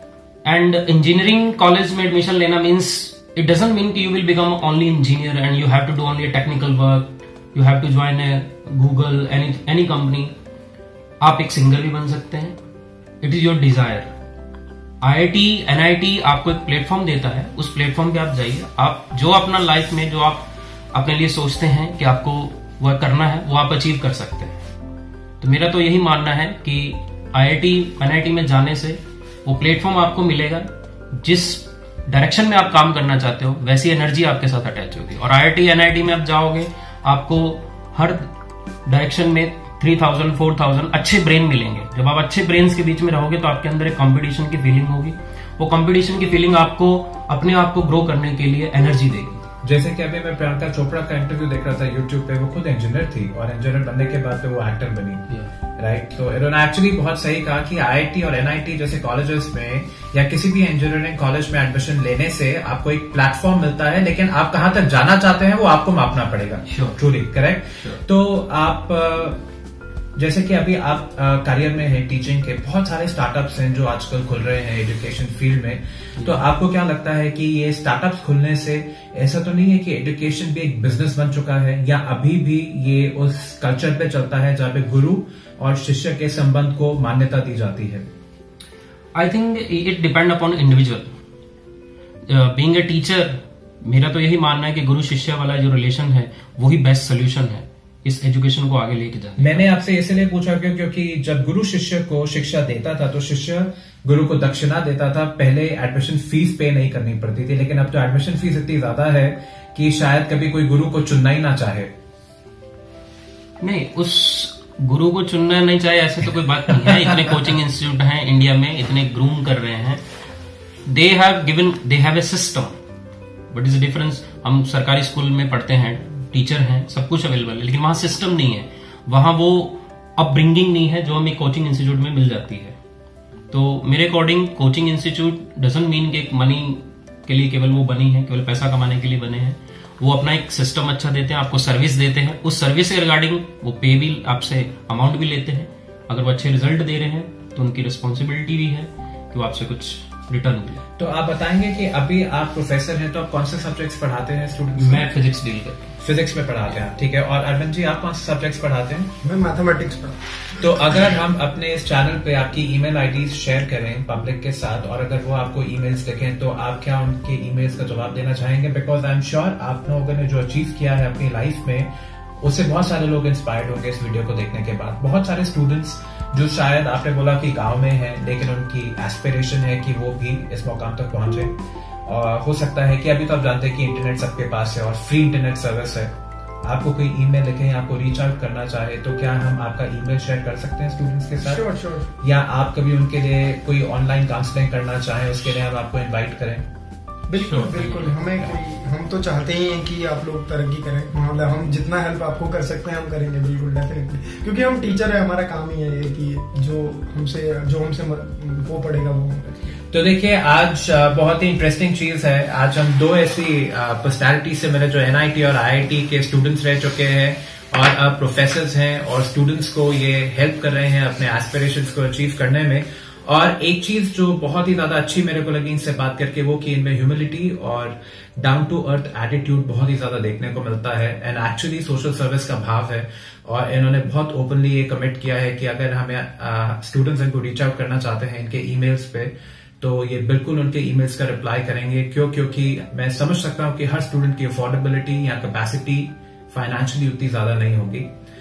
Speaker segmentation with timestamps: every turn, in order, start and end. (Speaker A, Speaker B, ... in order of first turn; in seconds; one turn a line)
Speaker A: 0.4-10.3
Speaker A: 11.2-12.6
Speaker A: 13.2-14.1
Speaker A: 15.0-24.6
Speaker A: 25.4-38.3
Speaker A: 38.9-49.4
Speaker B: 49.6-69.4
Speaker A: 66.7-67.0
Speaker B: 70.2-88.1
Speaker A: 89.1-91.1
Speaker A: 92.3-99.6
Speaker B: 99.4-111.9
Speaker A: 113.6-120.0
Speaker A: 120.9-122.7
Speaker A: 123.5-132.8
Speaker A: 133.5-150.8
Speaker B: 151.0-155.1
Speaker A: 154.8-155.9
Speaker B: 156.0-159.1
Speaker C: 159.2-160.2
Speaker B: 160.6-171.9
Speaker B: 172.4-181.5
Speaker B: 182.1-186.1
Speaker B: 186.6-191.6
Speaker C: 191.4-192.1
Speaker B: 192.2-196.7
Speaker C: 197.3-209.8
Speaker A: 197.4-198.1
Speaker B: 209.9-248.1